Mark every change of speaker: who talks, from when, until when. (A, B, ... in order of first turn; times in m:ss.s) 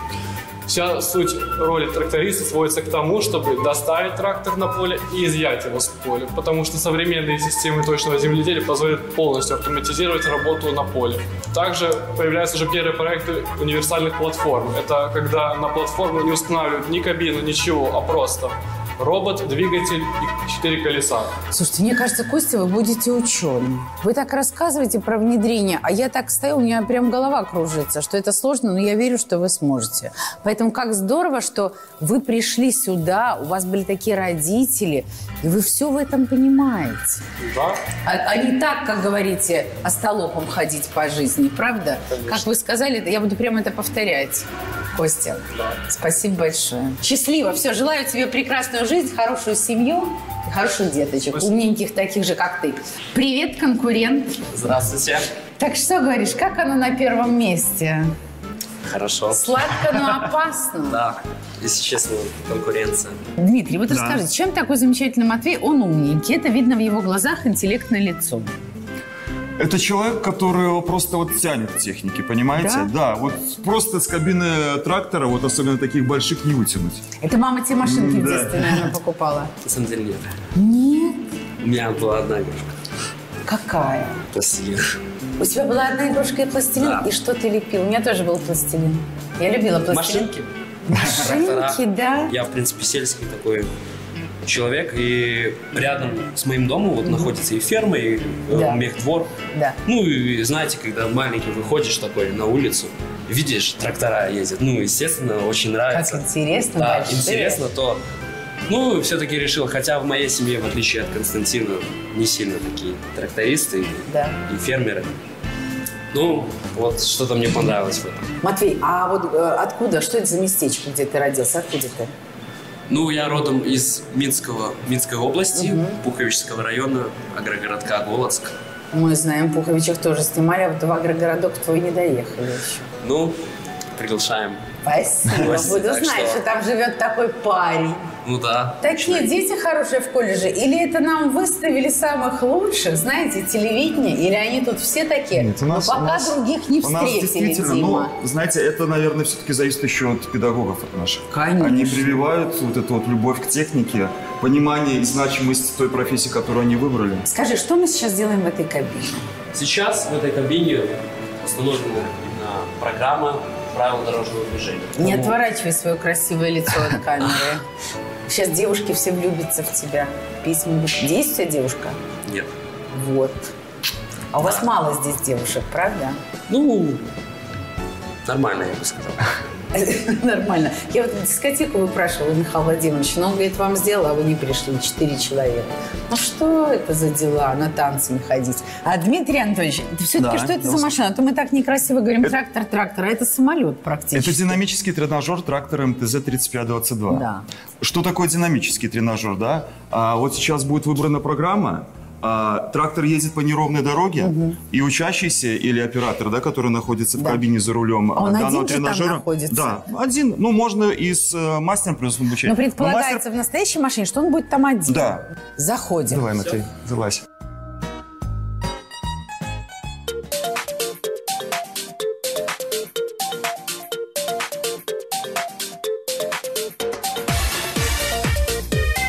0:00.7-0:21.3 A
0:21.5-0:37.2 B
0:37.4-0:37.8 A
0:38.0-0:54.4 B
0:54.5-0:55.3 C
0:55.6-0:58.1 B
0:58.8-0:59.6 C
0:59.3-1:01.0 B
1:00.9-1:03.2 C
1:03.4-1:08.5 B
1:03.9-1:04.2 D
1:09.6-1:17.0 D
1:12.6-1:12.9 B
1:17.2-1:19.5 B
1:17.8-1:18.9 D
1:19.6-1:20.3 C
1:20.5-1:21.3 B
1:21.6-1:22.8 C
1:23.4-1:24.2 B
1:24.3-1:25.0 C
1:25.4-1:30.3 B
1:26.8-1:27.1 C
1:29.9-1:33.7 C
1:30.9-1:32.3 B
1:34.4-1:39.3 C
1:37.0-1:37.3 B
1:38.5-1:38.9 B
1:39.8-1:48.0 C
1:45.9-1:47.6 B
1:48.7-1:55.1 C
1:54.1-1:54.4 B
1:56.1-1:58.3 C
1:58.4-2:02.1 B
2:02.9-2:08.5 C
2:05.5-2:06.0 B
2:08.9-2:12.9 B
2:13.0-2:13.4 C
2:13.9-2:14.6 C
2:14.8-2:18.1 B
2:15.3-2:15.7 D
2:15.3-2:16.4 C
2:18.2-2:19.3 C
2:18.8-2:28.1 B
2:25.3-2:37.2 D
2:31.3-2:32.2 B
2:37.3-2:39.2 B
2:39.5-2:45.4 C
2:45.0-2:47.6 B
2:48.3-2:52.0 B
2:52.9-2:53.5 B
2:54.3-2:56.2 B
2:54.4-2:54.7 C
2:56.5-2:57.0 C
2:58.2-2:59.2 C
2:59.7-3:14.6 B
3:10.2-3:10.9 D
3:14.1-3:17.2 D
3:17.1-3:17.4 B
3:17.8-3:33.2 D
3:24.2-3:24.6 B
3:27.2-3:27.4 B
3:28.2-3:29.8 B
3:32.4-3:36.2 B
3:34.9-3:35.2 D
3:36.1-3:37.2 D